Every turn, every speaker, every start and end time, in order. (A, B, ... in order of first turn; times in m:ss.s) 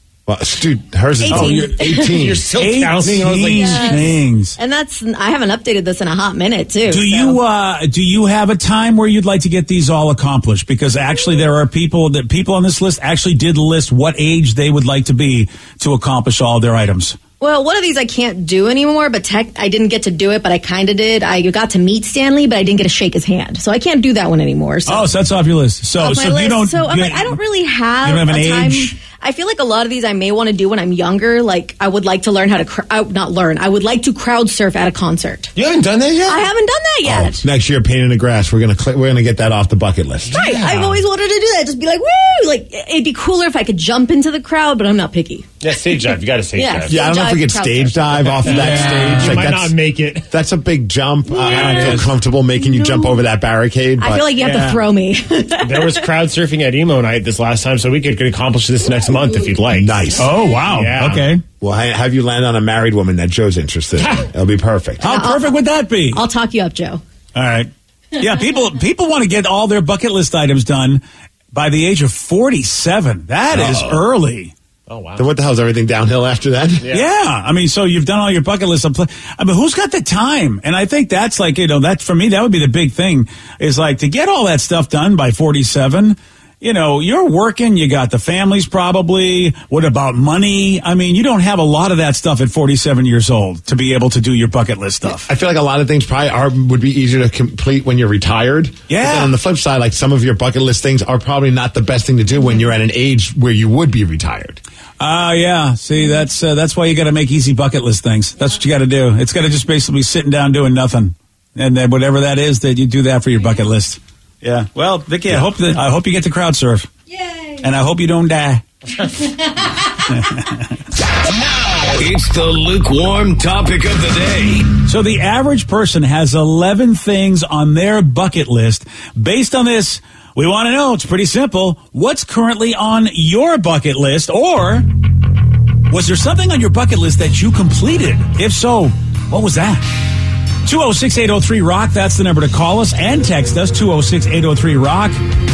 0:00.3-0:02.5 A
0:01.2-0:02.1 B
0:02.0-0:04.0 C
0:02.6-0:04.6 D
0:03.5-0:07.4 B
0:06.9-0:17.2 D
0:17.4-0:25.1 B
0:24.9-0:27.4 D
0:26.0-0:35.5 B
0:28.0-0:29.0 D
0:35.5-0:36.5 C
0:36.2-0:37.4 B
0:37.0-0:40.4 A
0:40.3-0:41.0 C
0:40.3-0:45.5 B
0:45.6-0:47.0 C
0:46.5-0:48.3 B
0:46.9-0:54.4 A
0:48.3-0:50.3 C
0:48.4-0:49.4 D
0:51.4-0:52.1 D
0:52.8-0:53.1 B
0:54.0-0:56.1 B
0:54.4-0:54.8 C
0:55.6-1:00.1 C
0:59.7-1:00.3 A
1:00.1-1:01.4 D
1:00.7-1:01.3 C
1:01.6-1:05.0 A
1:05.0-1:06.2 D
1:05.0-1:05.6 B
1:06.1-1:07.0 B
1:07.3-1:11.0 D
1:11.5-1:14.5 D
1:13.5-1:14.0 A
1:14.9-1:15.2 C
1:15.2-1:16.9 A
1:16.9-1:35.3 D
1:35.2-1:44.6 A
1:38.9-1:39.3 D
1:45.0-1:56.9 D
1:57.6-1:58.6 D
2:00.0-2:00.8 D
2:01.7-2:04.7 E
2:04.8-2:14.9 D
2:15.9-2:19.8 D
2:20.6-2:25.2 D